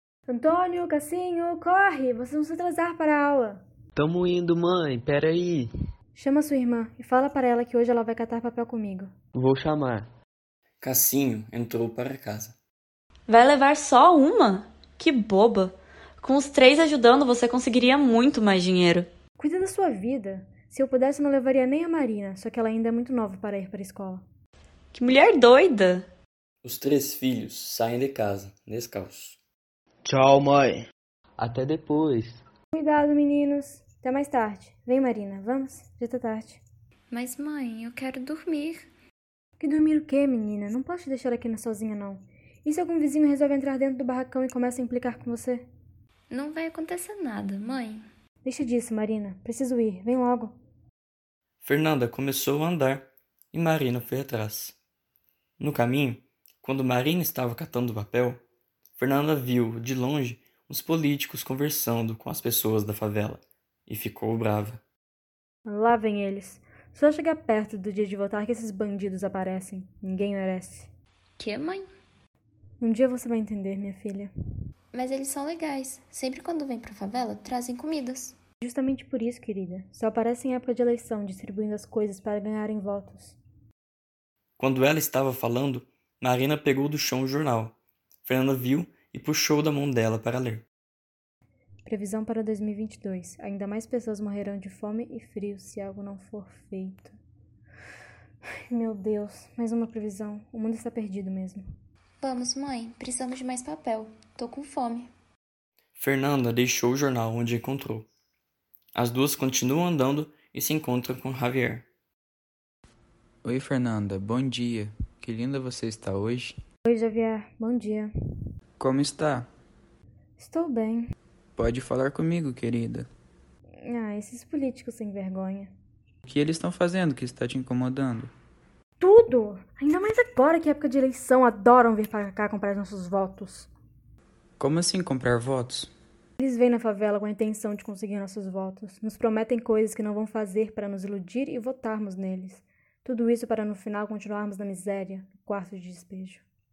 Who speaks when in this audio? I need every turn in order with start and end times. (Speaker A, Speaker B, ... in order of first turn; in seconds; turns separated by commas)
Speaker A: 0.3-3.6, Speaker B: 4.0-5.8, Speaker A: 6.2-9.1, Speaker B: 9.3-10.1, Speaker C: 10.8-12.6, Speaker D: 13.3-19.1, Speaker A: 19.4-24.2, Speaker D: 24.9-26.1, Speaker C: 26.6-29.4, Speaker B: 30.1-30.9, Speaker B: 31.4-32.4, Speaker A: 32.7-36.6, Speaker E: 37.1-38.9, Speaker A: 39.6-45.6, Speaker E: 46.3-48.1, Speaker A: 48.4-50.5, Speaker C: 51.6-54.8, Speaker C: 55.6-58.4, Speaker C: 59.0-64.8, Speaker A: 65.7-70.9, Speaker E: 71.4-71.9, Speaker A: 72.8-74.3, Speaker E: 74.9-78.3, Speaker A: 78.6-83.4, Speaker C: 84.6-90.7, Speaker A: 91.9-97.2, Speaker A: 98.7-101.6, Speaker E: 102.2-105.1, Speaker C: 106.0-108.1, Speaker C: 108.9-111.9, Speaker F: 113.4-116.6, Speaker A: 116.8-118.1, Speaker F: 118.8-119.5, Speaker A: 120.4-121.1, Speaker F: 121.6-123.1, Speaker A: 123.8-125.7, Speaker F: 126.2-128.3, Speaker A: 129.0-133.7, Speaker F: 134.6-135.9, Speaker A: 136.4-146.4